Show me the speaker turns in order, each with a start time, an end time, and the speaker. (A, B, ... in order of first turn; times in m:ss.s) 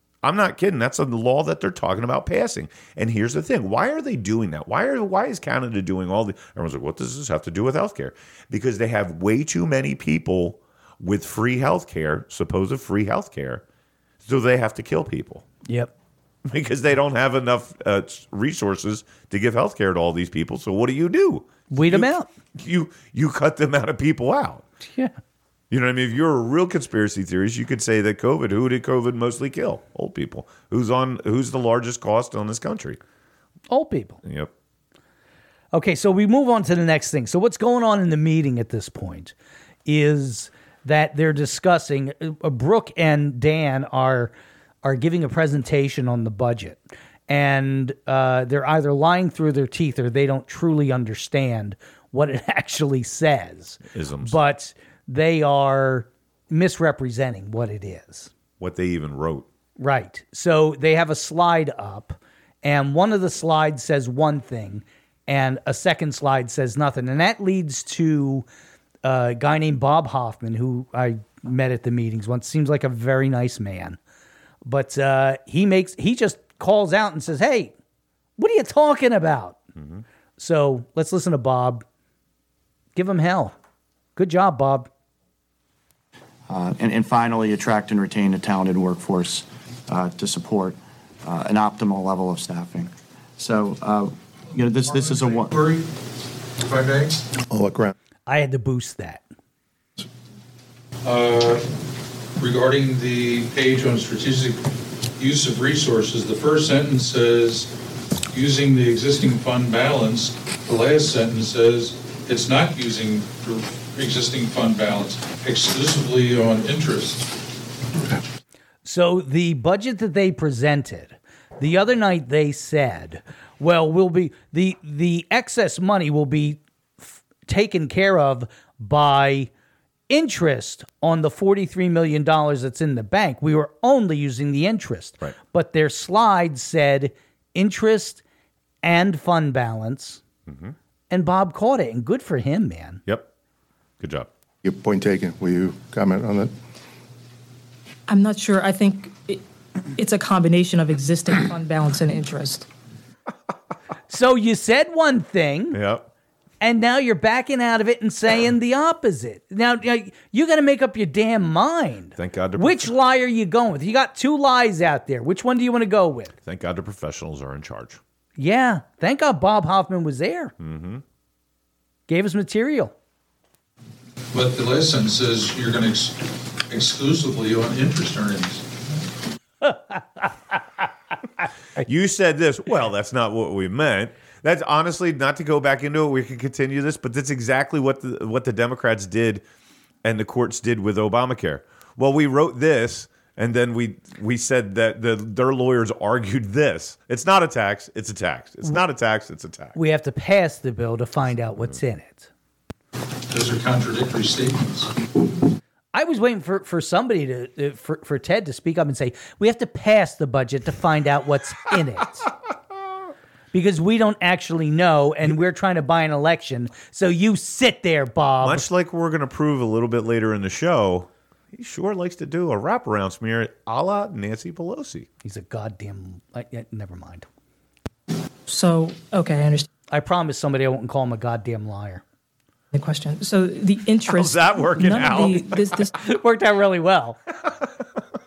0:00.2-0:13.6 A
0:14.2-0:15.5 A
0:15.7-0:15.9 B
0:16.5-0:24.7 A
0:21.7-0:22.3 B
0:24.9-0:25.2 B
0:25.7-0:33.0 A
0:33.7-0:34.2 B
0:34.2-0:34.5 A
0:35.7-0:39.3 B
0:39.9-0:58.3 B
0:53.9-0:54.4 A
0:58.6-0:59.5 A
0:59.8-1:08.4 B
1:09.0-1:14.0 B
1:14.6-1:17.7 B
1:18.4-1:19.6 B
1:19.8-1:20.0 A
1:20.4-1:21.8 B
1:23.0-1:23.6 B
1:24.2-1:24.9 B
1:26.5-1:35.5 C
1:34.9-1:35.9 D
1:36.6-1:37.2 D
1:37.5-1:37.9 E
1:38.3-1:39.2 B
1:41.0-1:41.6 D
1:42.4-1:44.6 D
1:45.2-1:47.7 D
1:48.3-1:57.3 D
1:58.8-2:09.5 B
2:10.1-2:18.2 B
2:18.8-2:20.2 B
2:20.5-2:20.8 A
2:21.1-2:23.0 B
2:24.0-2:24.3 A
2:24.6-2:26.5 E
2:28.1-2:29.4 F
2:30.0-2:32.7 F
2:34.1-2:35.8 B
2:35.7-2:36.1 A
2:36.6-2:46.3 B
2:42.2-2:42.9 A
2:46.4-2:48.0 A
2:48.4-2:50.5 B
2:50.6-2:51.0 A
2:52.1-2:52.9 B
2:54.3-2:58.7 D
2:59.6-3:00.0 B
3:01.8-3:09.4 A
3:10.0-3:19.8 A
3:19.8-3:22.3 B
3:23.3-3:24.9 D
3:25.9-3:32.3 B
3:33.5-3:38.7 B
3:38.4-3:45.1 A
3:45.2-3:47.3 B
3:48.5-3:49.7 F
3:49.9-3:52.0 B
3:52.7-3:55.9 F
3:54.1-3:55.8 A
3:56.0-3:57.2 B